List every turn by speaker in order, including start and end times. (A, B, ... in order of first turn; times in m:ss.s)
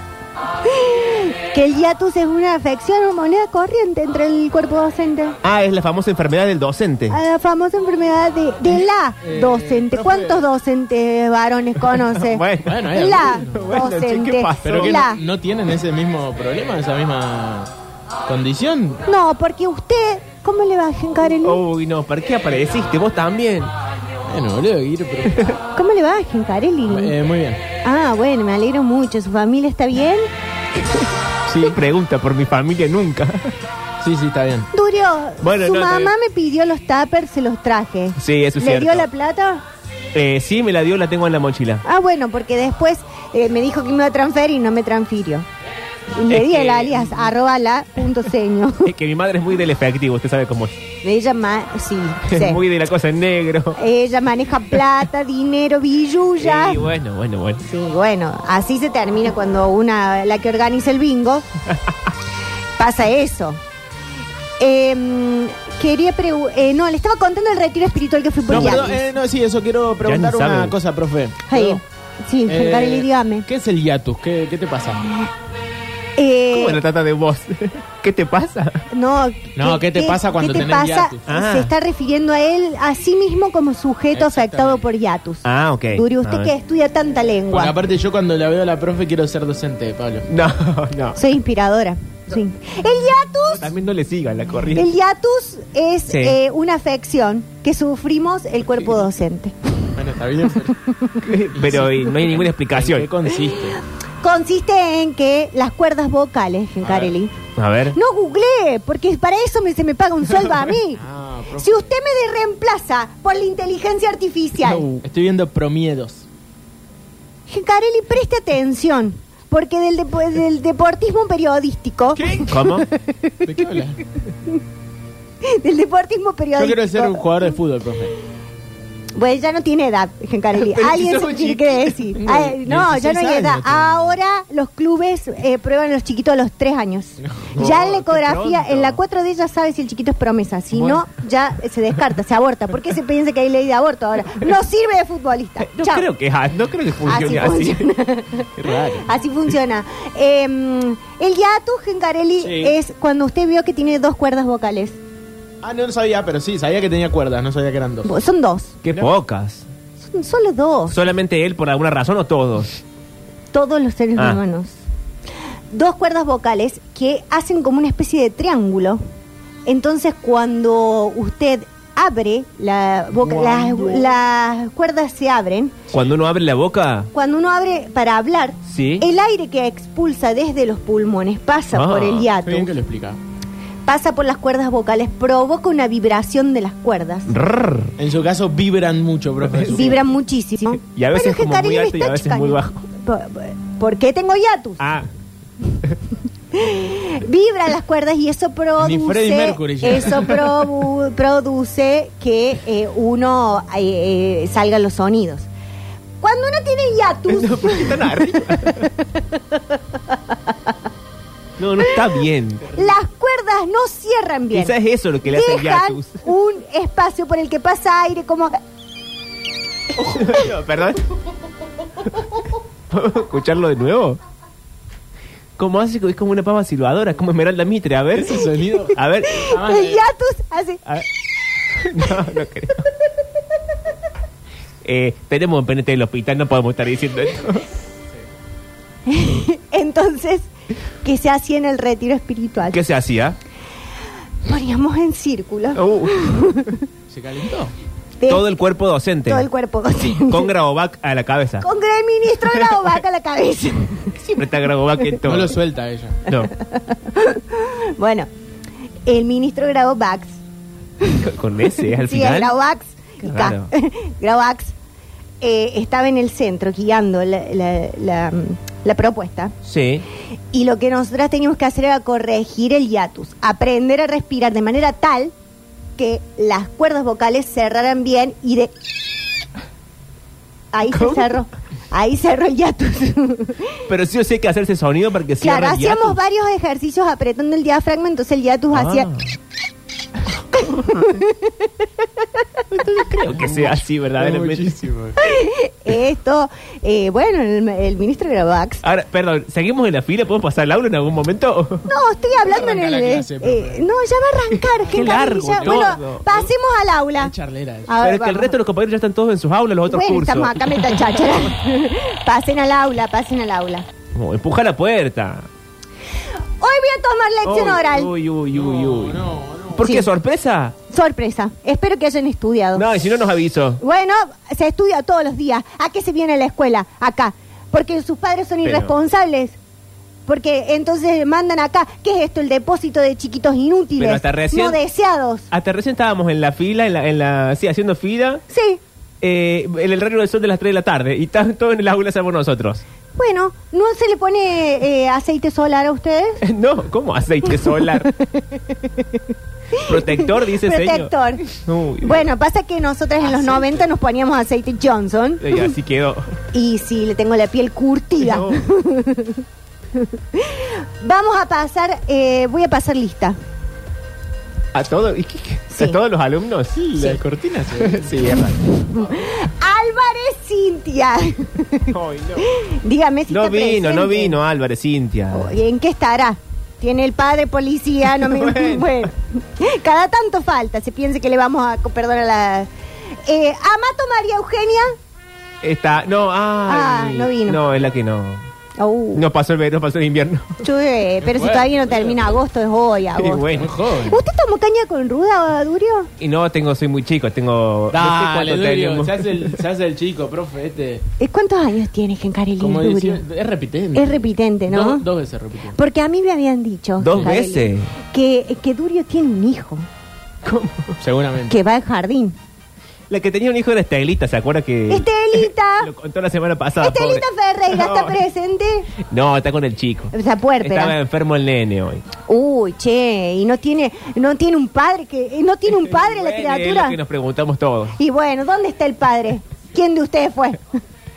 0:00.6-0:05.4 A
0:05.4-0:07.2 B
0:07.1-0:15.2 A
0:09.2-0:10.5 C
0:11.8-0:15.0 B
0:12.6-0:13.7 C
0:14.6-0:17.7 C
0:18.3-0:19.0 C
0:19.1-0:21.6 A
0:21.4-0:23.7 B
0:24.3-0:25.6 C
0:25.8-0:27.2 A
0:26.9-0:27.6 C
0:27.8-0:30.3 A
0:31.5-0:31.8 C
0:31.6-0:33.6 B
0:34.0-0:34.7 C
0:34.7-0:39.6 A
0:35.4-0:36.1 B
0:38.2-0:39.1 B
0:40.1-0:41.8 B
0:41.8-0:45.5 A
0:46.2-0:48.9 A
0:46.3-0:47.2 B
0:48.8-0:50.8 B
0:51.0-0:52.6 A
0:52.3-0:53.8 B
0:53.8-0:56.9 A
0:56.4-0:57.6 B
0:57.6-1:01.5 A
1:02.8-1:03.6 A
1:04.6-1:09.0 A
1:08.5-1:11.8 C
1:08.5-1:08.8 B
1:10.0-1:10.8 B
1:11.5-1:13.5 A
1:12.5-1:15.0 C
1:16.2-1:16.8 A
1:16.5-1:18.9 B
1:18.9-1:27.7 A
1:19.6-1:21.2 C
1:21.3-1:21.7 B
1:24.1-1:24.8 C
1:25.4-1:26.5 B
1:27.5-1:30.3 C
1:30.3-1:31.2 B
1:31.2-1:33.7 A
1:33.6-1:34.9 B
1:34.7-1:39.6 A
1:36.1-1:36.4 B
1:39.9-1:40.8 C
1:40.9-1:41.2 A
1:41.2-1:43.1 B
1:41.5-1:43.8 C
1:44.2-1:47.3 A
1:46.8-1:47.2 C
1:47.6-1:48.0 B
1:47.9-1:51.0 A
1:51.0-1:51.9 C
1:51.6-1:54.9 A
1:54.6-1:55.0 B
1:55.0-1:56.2 C
1:57.5-2:03.4 A
2:02.2-2:02.6 C
2:02.5-2:02.9 B
2:03.4-2:04.0 C
2:05.4-2:07.3 A
2:06.6-2:08.2 C
2:09.2-2:26.1 A
2:10.5-2:12.2 B
2:12.2-2:14.2 C
2:17.2-2:17.7 C
2:17.6-2:19.0 B
2:20.8-2:21.0 B
2:25.6-2:27.9 B
2:27.0-2:35.0 A
2:28.6-2:29.0 C
2:32.4-2:32.8 C
2:35.6-2:38.1 C
2:38.1-2:38.8 A
2:38.8-2:39.7 B
2:40.0-2:41.0 A
2:40.9-2:42.8 B
2:43.5-2:44.8 A
2:45.7-2:49.0 A
2:49.6-2:55.8 A
2:53.2-2:54.2 C
2:55.9-2:57.1 B
2:57.1-3:02.7 A
2:58.6-2:59.1 B
3:01.7-3:02.3 B
3:02.4-3:03.2 C
3:03.9-3:07.3 A
3:07.3-3:08.0 B
3:08.0-3:10.0 C
3:09.5-3:09.9 B
3:09.7-3:14.8 A
3:10.7-3:12.8 B
3:14.8-3:15.1 B
3:16.5-3:25.5 A
3:18.8-3:20.6 C
3:26.2-3:30.6 A
3:27.3-3:28.9 B
3:31.6-3:32.7 B
3:31.8-3:32.1 A
3:32.7-3:38.6 A
3:34.5-3:36.2 B
3:40.0-3:41.1 B
3:42.9-3:44.2 B
3:45.6-3:49.4 B
3:48.2-3:50.0 C
3:49.2-3:50.8 A
3:51.7-3:52.8 B
3:54.8-3:57.7 B
3:59.1-4:00.5 A
4:01.0-4:02.8 A
4:02.7-4:03.4 B
4:04.4-4:06.8 A
4:05.8-4:06.2 B
4:07.1-4:07.7 C
4:08.2-4:08.4 A
4:08.3-4:09.5 B
4:09.3-4:10.5 A
4:10.1-4:11.7 B
4:11.6-4:14.1 A
4:12.5-4:12.9 B
4:14.2-4:15.6 B
4:15.2-4:16.2 C
4:16.3-4:16.5 B
4:16.4-4:18.3 A
4:19.1-4:20.4 A
4:21.2-4:22.5 B
4:21.9-4:24.8 A
4:23.2-4:23.7 B
4:25.4-4:29.6 A
4:29.6-4:30.1 B
4:30.5-4:35.3 A
4:36.0-4:38.7 A
4:40.7-4:43.8 A
4:40.9-4:41.3 B
4:43.9-4:46.2 B
4:45.4-4:49.1 A
4:48.7-4:49.3 B
4:50.5-4:51.9 A
4:52.7-4:54.8 B
4:53.3-4:55.2 C
4:55.2-4:58.8 A
4:58.8-5:01.9 B
5:01.9-5:07.3 A
5:02.4-5:03.9 C
5:04.9-5:06.2 B
5:05.0-5:06.5 C
5:07.2-5:07.9 C
5:07.9-5:08.6 A
5:08.0-5:11.2 B
5:09.9-5:13.9 A
5:14.1-5:15.5 B
5:16.6-5:18.1 A
5:17.4-5:19.2 B
5:18.5-5:19.9 C
5:19.8-5:20.8 B
5:19.8-5:20.1 A
5:20.9-5:22.9 A
5:22.7-5:23.8 B
5:23.8-5:29.6 A
5:28.6-5:28.9 B
5:30.3-5:35.5 A
5:34.0-5:34.8 B
5:35.5-5:38.4 B
5:38.5-5:38.8 A
5:39.2-5:42.8 B
5:43.2-5:46.4 A
5:46.4-5:48.1 B
5:47.5-5:51.5 A
5:49.9-5:52.3 B
5:52.0-5:55.7 A
5:53.2-5:53.8 C
5:55.4-5:56.4 B
5:56.5-5:59.4 A
5:58.2-5:58.6 B
6:00.0-6:03.4 A
6:04.7-6:06.9 B
6:05.7-6:06.0 A
6:06.9-6:08.4 C
6:07.8-6:08.6 B
6:08.7-6:14.4 A
6:11.9-6:12.5 B
6:13.3-6:15.5 B
6:15.3-6:22.7 A
6:18.2-6:19.0 B
6:23.2-6:25.0 A
6:25.6-6:28.4 B
6:26.7-6:27.6 A
6:28.8-6:29.2 A
6:29.2-6:30.6 B
6:30.6-6:36.1 A
6:31.2-6:32.3 C
6:33.2-6:33.7 B
6:33.6-6:34.2 C
6:36.2-6:39.5 B
6:37.9-6:41.0 C
6:41.2-6:43.2 A
6:42.6-6:45.8 C
6:44.0-6:45.1 A
6:45.8-6:49.8 A
6:47.0-6:47.9 B
6:50.4-6:51.0 B
6:51.0-6:51.6 C
6:51.5-6:52.4 A
6:53.1-6:58.2 B
6:54.9-6:55.9 A
6:56.8-6:58.9 A
6:59.0-7:02.1 B
7:00.1-7:01.0 A
7:02.3-7:07.0 A
7:05.8-7:08.0 B
7:08.0-7:10.8 A